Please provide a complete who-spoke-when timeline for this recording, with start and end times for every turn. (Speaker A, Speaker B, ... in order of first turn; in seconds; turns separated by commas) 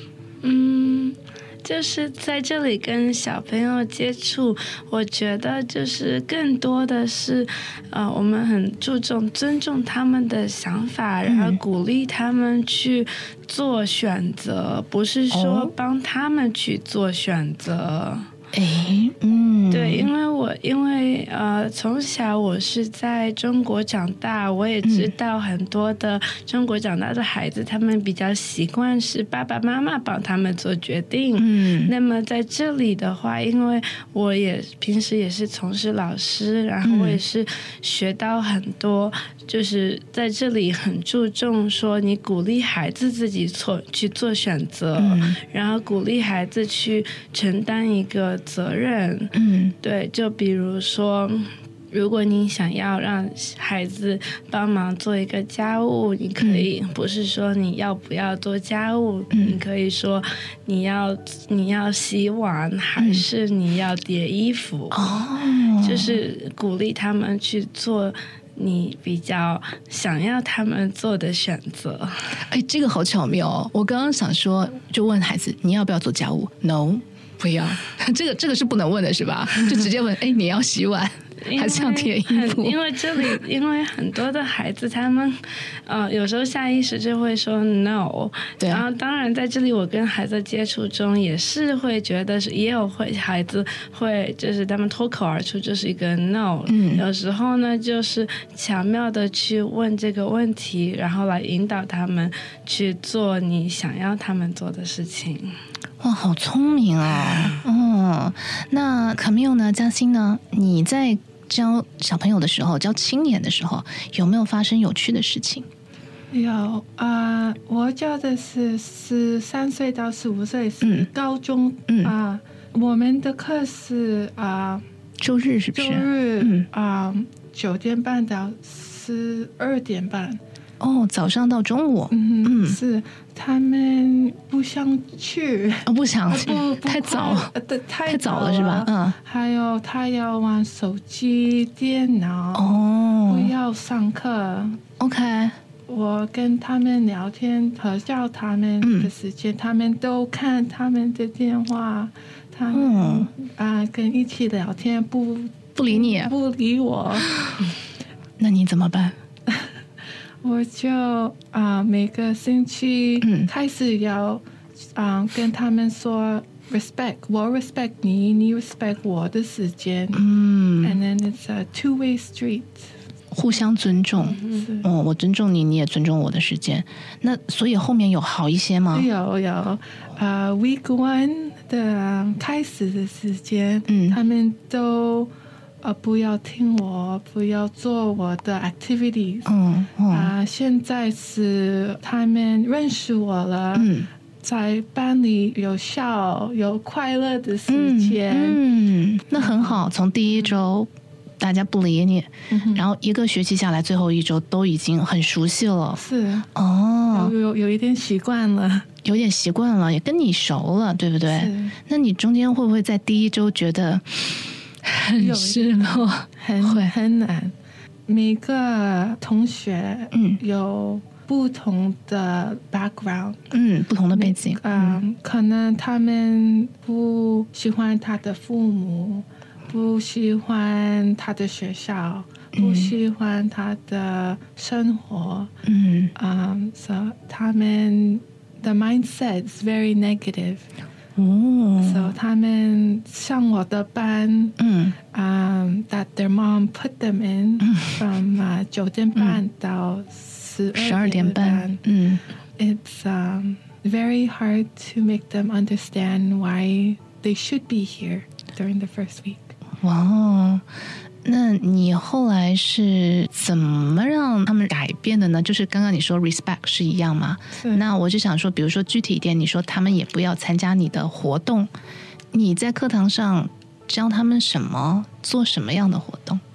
Speaker A: 0.4-18.3, Speaker B: 11.3-11.6, Speaker B: 15.3-15.7, Speaker B: 18.5-20.1, Speaker A: 19.7-65.2, Speaker B: 24.8-25.1, Speaker B: 31.4-31.9, Speaker B: 36.8-37.2, Speaker B: 45.0-45.4, Speaker B: 49.3-49.7, Speaker B: 56.4-56.7, Speaker B: 59.3-59.6, Speaker B: 63.0-63.2, Speaker B: 64.9-66.2, Speaker A: 65.8-72.1, Speaker B: 72.5-83.2, Speaker A: 81.4-105.5, Speaker B: 96.7-97.0, Speaker B: 106.0-115.7, Speaker C: 116.3-124.8, Speaker B: 120.8-121.1, Speaker B: 121.9-122.1, Speaker B: 125.2-126.7, Speaker C: 125.7-130.4, Speaker B: 130.8-132.8, Speaker C: 132.1-144.8, Speaker B: 135.8-137.5, Speaker B: 138.1-139.2, Speaker B: 142.5-143.5, Speaker B: 145.0-145.6, Speaker C: 145.9-157.3, Speaker B: 148.8-149.1, Speaker B: 152.7-153.3, Speaker B: 155.8-156.3, Speaker B: 158.4-159.1, Speaker C: 160.4-164.4, Speaker B: 163.2-163.5, Speaker C: 164.9-170.2, Speaker B: 170.1-171.0, Speaker C: 170.8-172.9, Speaker B: 173.3-179.1, Speaker C: 174.3-174.9, Speaker C: 178.9-189.5, Speaker B: 183.9-184.2, Speaker B: 189.5-190.3, Speaker C: 190.1-193.9, Speaker B: 193.7-194.1, Speaker C: 194.4-198.6, Speaker B: 197.7-206.0, Speaker C: 199.3-199.8, Speaker C: 202.5-202.8, Speaker C: 205.9-206.5, Speaker B: 206.5-207.3, Speaker C: 207.1-208.9, Speaker B: 209.0-216.9, Speaker C: 211.3-211.8, Speaker C: 215.1-217.5, Speaker C: 218.1-223.4, Speaker B: 220.1-220.4, Speaker B: 223.5-225.0, Speaker C: 224.1-235.5, Speaker B: 232.6-232.9, Speaker B: 235.7-236.1, Speaker C: 236.2-240.7, Speaker B: 241.2-242.1, Speaker C: 241.8-244.6, Speaker B: 244.6-244.9, Speaker C: 245.1-251.8, Speaker B: 247.7-247.9, Speaker B: 250.7-252.2, Speaker C: 252.6-259.5, Speaker B: 259.8-260.6, Speaker B: 261.2-271.7, Speaker C: 267.6-267.8, Speaker B: 272.3-276.4